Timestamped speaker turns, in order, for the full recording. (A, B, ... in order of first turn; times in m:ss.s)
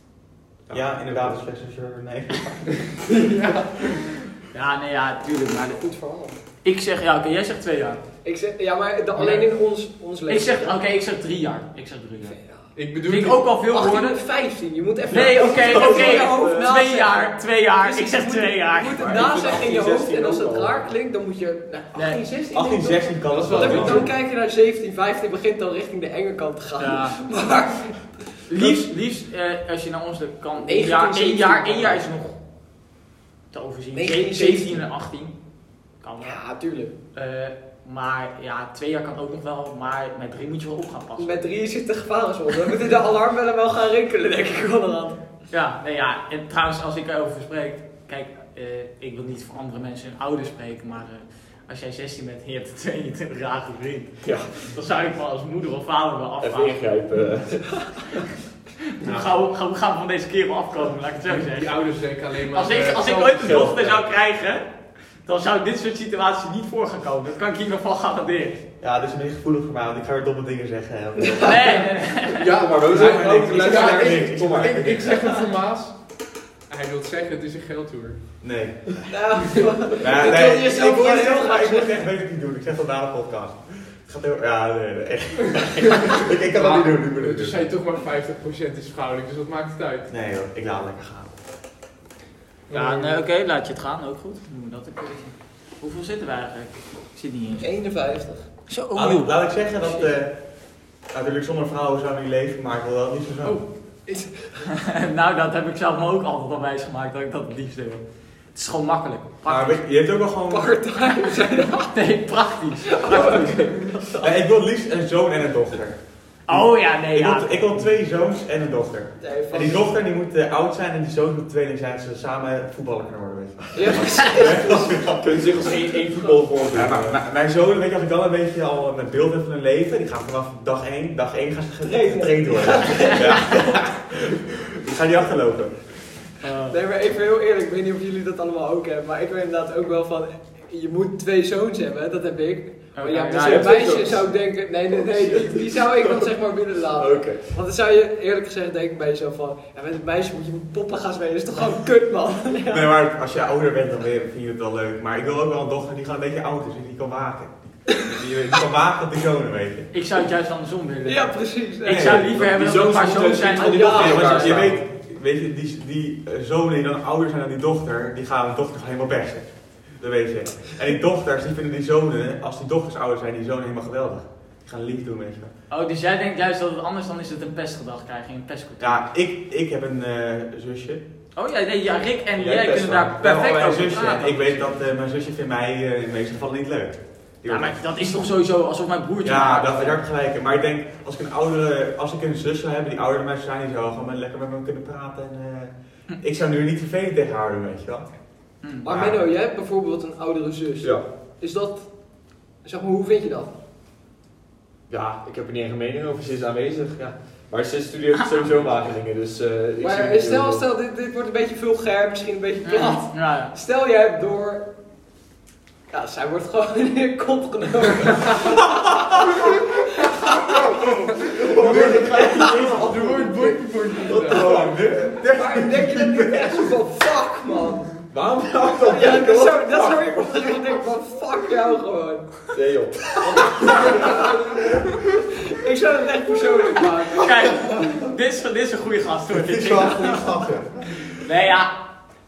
0:00.6-0:01.4 A
0:00.7-0:03.0 B
0:03.1-0:04.1 C
0:04.5-0:05.8 D
0:05.8-0:06.4 E
0:06.6-0:08.0 D
0:08.2-0:10.7 E
0:09.1-0:09.5 C
0:10.3-0:12.4 D
0:12.3-0:12.6 E
0:12.7-0:13.5 C
0:13.0-0:14.2 D
0:13.7-0:28.2 E
0:15.1-0:19.6 D
0:15.1-0:16.7 A
0:19.0-0:20.9 A
0:21.9-0:22.2 D
0:22.5-0:24.1 B
0:23.3-0:24.1 C
0:23.4-0:24.0 A
0:26.8-0:27.2 D
0:28.5-0:32.4 D
0:30.6-0:32.1 E
0:33.5-0:36.6 D
0:33.9-0:34.8 E
0:36.2-0:36.9 E
0:37.1-0:41.4 D
0:41.2-0:45.2 E
0:45.5-0:56.9 D
0:54.2-0:54.7 A
0:56.4-0:58.2 A
0:59.0-1:08.6 D
0:59.0-0:59.3 C
1:01.2-1:03.6 C
1:03.4-1:04.1 A
1:08.8-1:11.9 B
1:11.4-1:12.5 D
1:12.4-1:18.6 C
1:12.6-1:14.9 A
1:12.9-1:15.4 B
1:18.4-1:19.4 B
1:19.1-1:21.9 E
1:20.0-1:27.6 B
1:26.5-1:30.1 C
1:30.1-1:31.3 B
1:32.7-1:33.2 C
1:32.7-1:37.7 D
1:37.6-1:38.5 E
1:38.7-1:40.1 D
1:38.9-1:43.8 B
1:44.0-1:44.6 E
1:44.9-1:49.8 D
1:49.4-1:51.0 B
1:50.5-1:52.1 E
1:51.6-1:53.8 D
1:53.0-1:54.3 E
1:54.1-2:05.7 B
1:56.5-1:57.8 D
1:59.2-1:59.8 E
2:03.7-2:05.2 E
2:05.0-2:07.2 A
2:06.0-2:06.4 E
2:06.7-2:16.2 B
2:11.8-2:13.9 E
2:16.4-2:16.8 D
2:16.7-2:32.9 E
2:22.9-2:23.8 D
2:23.4-2:26.3 A
2:27.0-2:27.6 A
2:32.7-2:39.9 B
2:39.9-2:44.2 D
2:41.0-2:42.2 E
2:41.8-2:42.3 B
2:42.2-2:44.8 A
2:43.6-2:44.7 E
2:43.9-2:55.5 B
2:55.7-2:59.0 D
2:58.8-3:01.0 B
3:01.3-3:04.7 D
3:02.4-3:08.0 B
3:07.4-3:10.0 D
3:09.2-3:19.2 B
3:18.8-3:23.5 E
3:20.8-3:21.1 A
3:24.9-3:30.6 A
3:29.8-3:34.7 E
3:32.6-3:33.5 D
3:35.9-3:42.8 E
3:39.0-3:39.4 B
3:41.2-3:46.7 B
3:41.6-3:44.5 C
3:44.3-3:48.1 E
3:48.1-3:50.2 A
3:48.7-3:49.1 B
3:48.8-3:52.5 E
3:52.5-3:53.8 A
3:53.1-3:54.5 E
3:53.3-3:54.3 B
3:55.4-3:57.7 E
3:57.2-4:00.3 D
3:59.3-4:01.2 B
4:01.2-4:01.8 D